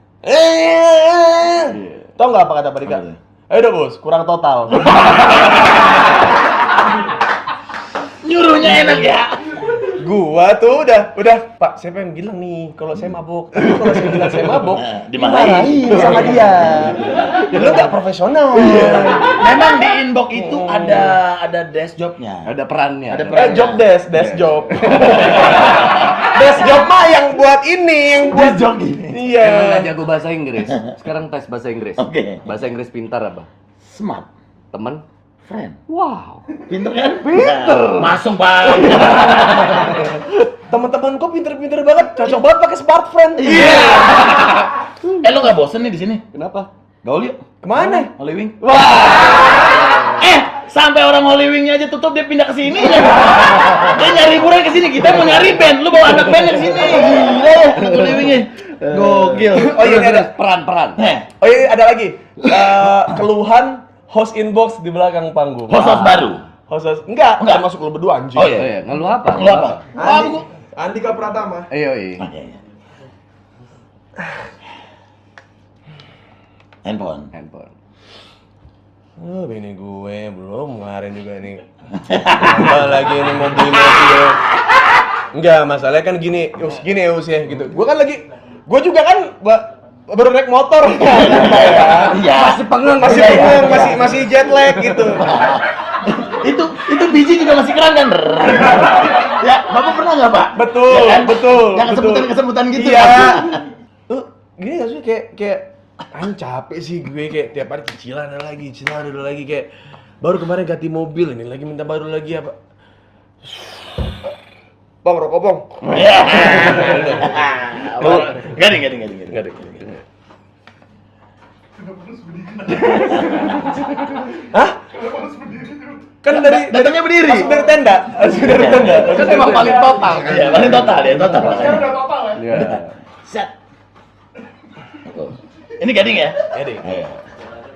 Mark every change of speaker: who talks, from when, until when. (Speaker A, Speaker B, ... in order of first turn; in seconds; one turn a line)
Speaker A: 0.2-5.4
Speaker B: 1.7-2.1
Speaker C: 2.8-3.2
Speaker C: 5.0-5.8
Speaker C: 8.2-9.4
Speaker A: 9.9-19.4
Speaker C: 14.8-16.5
Speaker B: 18.6-19.4
Speaker C: 19.3-22.5
Speaker A: 20.3-21.1
Speaker B: 22.4-25.4
Speaker C: 23.1-23.8
Speaker A: 23.3-29.9
Speaker C: 25.1-25.8
Speaker C: 28.2-29.2
Speaker B: 29.4-33.5
Speaker C: 32.0-32.5
Speaker C: 33.8-34.3
Speaker B: 34.7-35.0
Speaker C: 35.5-35.8
Speaker B: 35.9-36.6
Speaker C: 36.6-39.9
Speaker B: 37.2-38.2
Speaker B: 38.9-39.3
Speaker A: 40.6-43.8
Speaker C: 43.4-44.7
Speaker B: 43.7-44.4
Speaker C: 45.2-46.2
Speaker B: 46.3-46.7
Speaker C: 47.0-47.4
Speaker A: 47.6-48.1
Speaker C: 48.1-48.6
Speaker B: 48.6-50.1
Speaker C: 49.3-59.9
Speaker B: 56.0-61.0
Speaker A: 59.6-60.3
Speaker C: 61.0-61.3
Speaker A: 61.4-66.1
Speaker C: 65.7-66.4
Speaker A: 66.7-68.6
Speaker C: 67.4-67.7
Speaker C: 68.3-70.5
Speaker B: 68.5-69.8
Speaker A: 70.0-71.7
Speaker B: 71.7-72.2
Speaker C: 72.2-72.6
Speaker C: 76.8-77.3
Speaker B: 77.3-77.7
Speaker A: 79.2-81.6
Speaker C: 82.0-82.8
Speaker A: 82.2-84.4
Speaker C: 83.7-84.8
Speaker A: 85.3-92.2
Speaker C: 90.9-94.3
Speaker B: 92.2-94.0
Speaker A: 92.7-95.4
Speaker C: 95.1-103.6
Speaker A: 100.5-109.7
Speaker A: 110.2-112.5
Speaker A: 113.4-113.9
Speaker A: 115.0-115.8
Speaker C: 115.8-119.9
Speaker A: 116.5-117.4
Speaker A: 117.9-118.5
Speaker A: 119.3-119.8
Speaker C: 122.8-123.4
Speaker B: 122.9-123.8
Speaker A: 124.5-124.8
Speaker A: 126.2-130.2
Speaker C: 126.3-127.6
Speaker C: 128.3-133.5
Speaker B: 129.0-132.9
Speaker A: 132.0-132.3
Speaker C: 134.9-137.1
Speaker A: 136.5-136.8
Speaker B: 136.8-137.2